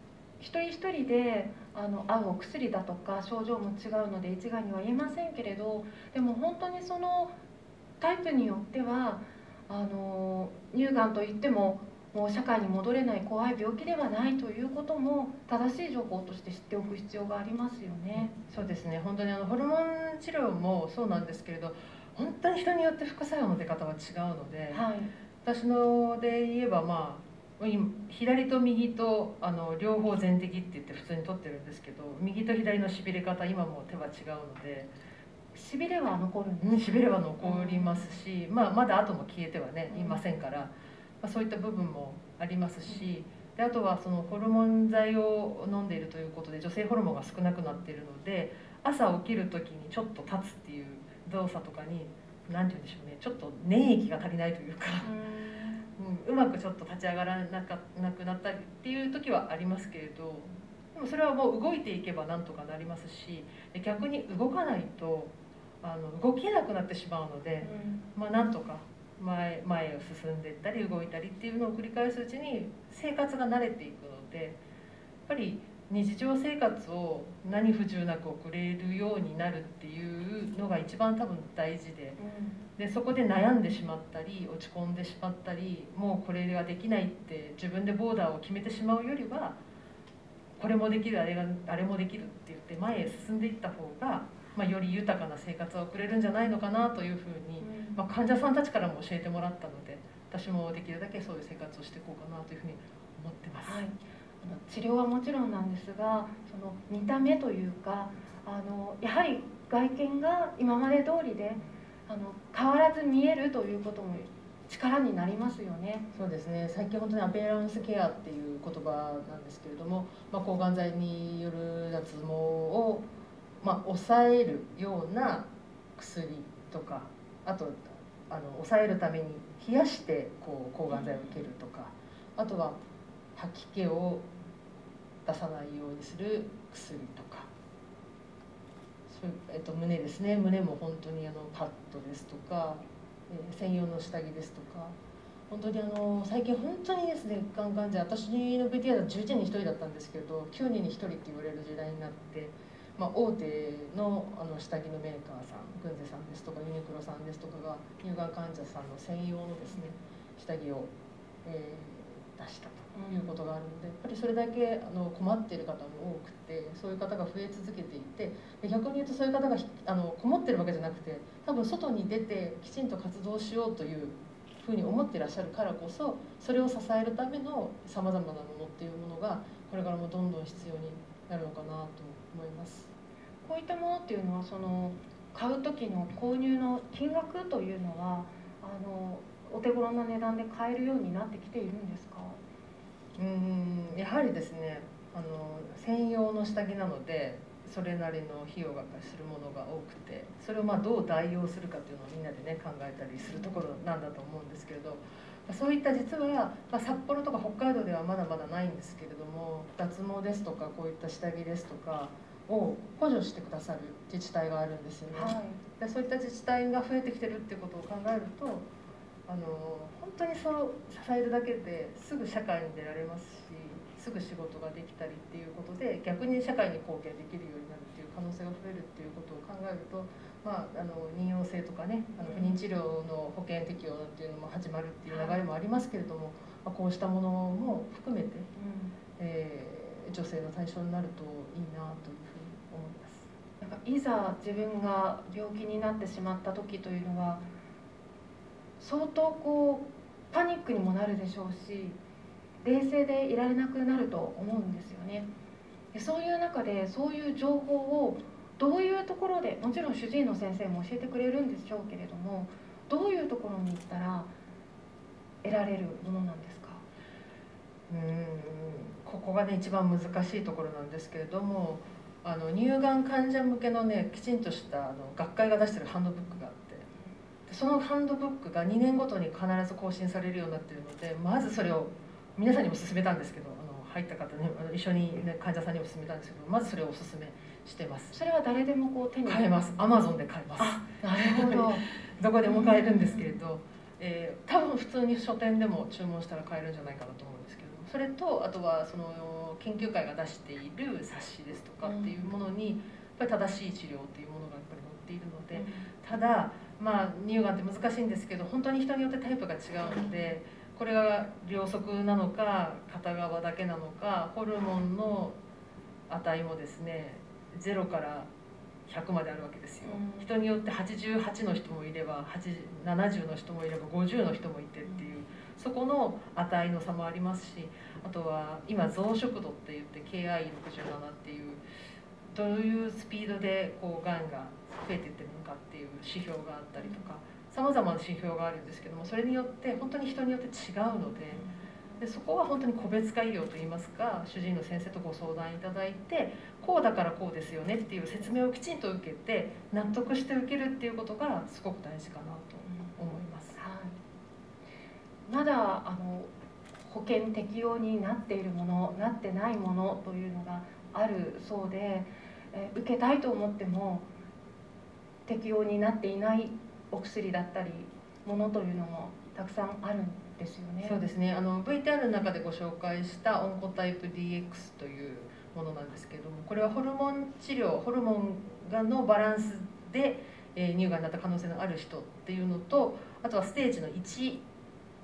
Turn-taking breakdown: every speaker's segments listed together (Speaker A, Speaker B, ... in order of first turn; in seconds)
Speaker A: 0.4-7.3, 8.0-18.4, 24.7-25.1, 35.5-38.0, 39.9-40.2, 55.0-55.9, 67.6-68.1, 82.2-82.6, 97.6-98.0, 103.6-116.1, 130.9-131.5, 162.9-163.3, 183.4-192.4, 203.2-203.6, 215.1-215.6, 232.2-232.6, 235.1-235.4, 238.6-238.9, 243.6-247.4, 248.8-252.0, 252.6-255.3, 255.9-264.3, 265.4-266.8, 288.1-289.5, 290.6-291.8, 292.4-293.3, 301.8-302.2, 305.5-305.9, 309.8-310.2, 319.8-320.3, 341.3-341.6, 352.7-352.9, 353.6-354.0, 355.2-356.3, 356.9-364.1, 365.2-371.0
Speaker B: 18.1-24.9, 25.4-34.9, 36.6-55.1, 56.0-74.6, 75.3-82.2, 82.8-89.6, 90.6-103.8, 116.1-123.0, 123.6-132.8, 133.3-134.2, 135.2-137.5, 139.1-145.0, 145.5-160.9, 161.4-182.9, 193.2-218.7, 219.3-238.5, 239.2-243.3, 267.9-276.9, 277.5-288.1, 289.2-315.4, 316.1-318.3, 318.9-331.6, 332.3-341.4, 342.0-353.6, 370.8-384.4